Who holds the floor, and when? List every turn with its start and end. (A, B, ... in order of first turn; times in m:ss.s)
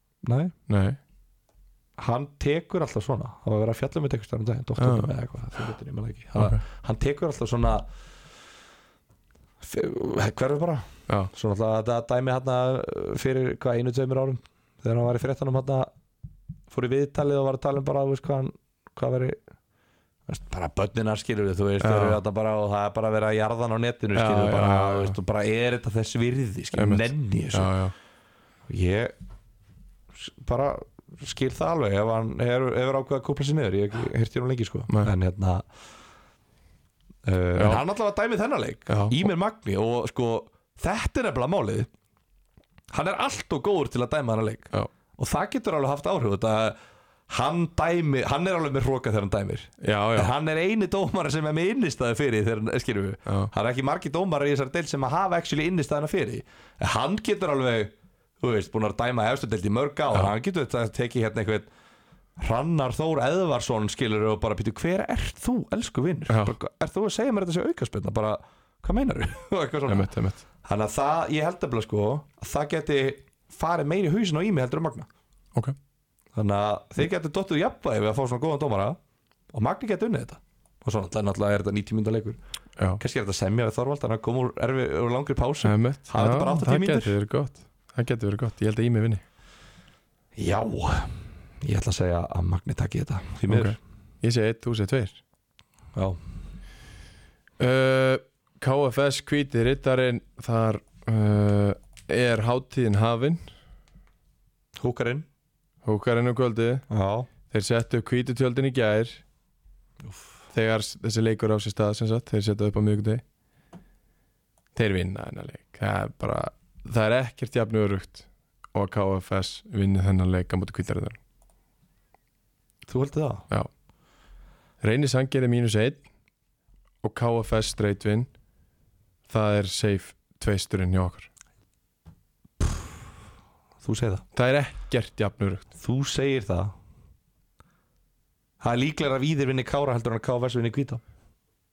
0:00.2-0:00.5 A
0:00.7-0:01.0 B
0:02.0-0:07.8 A
0:04.8-0:05.1 B
0:09.6-0:15.9 A
0:16.7-0:19.4 A
0:20.3-0:27.7 A
0:21.8-0:22.2 B
0:24.1-0:25.2 B
0:26.8-0:27.9 B
0:28.7-0:29.1 A
0:30.2-0:35.6 A
0:37.2-0:41.9 A
0:37.6-0:37.8 B
0:38.9-0:39.3 B
0:42.9-0:46.8 A
0:47.3-1:01.7 A
0:49.8-0:50.3 B
1:02.4-1:10.1 A
1:06.3-1:06.5 B
1:09.9-1:10.4 B
1:10.6-1:15.1 A
1:16.4-1:19.0 A
1:19.5-1:22.4 A
1:23.0-1:27.1 A
1:25.6-1:29.2 B
1:30.4-1:33.8 A
1:33.5-1:35.2 B
1:37.6-1:43.5 B
1:44.8-1:45.2 A
1:45.8-1:46.8 B
1:46.9-1:47.3 A
1:47.5-1:49.2 B
1:50.5-1:53.2 B
1:54.7-2:01.2 B
2:02.9-2:03.4 A
2:04.8-2:06.0 B
2:07.0-2:08.3 B
2:09.3-2:11.3 B
2:13.8-2:14.2 A
2:14.3-2:15.7 B
2:15.8-2:16.7 A
2:18.6-2:21.0 A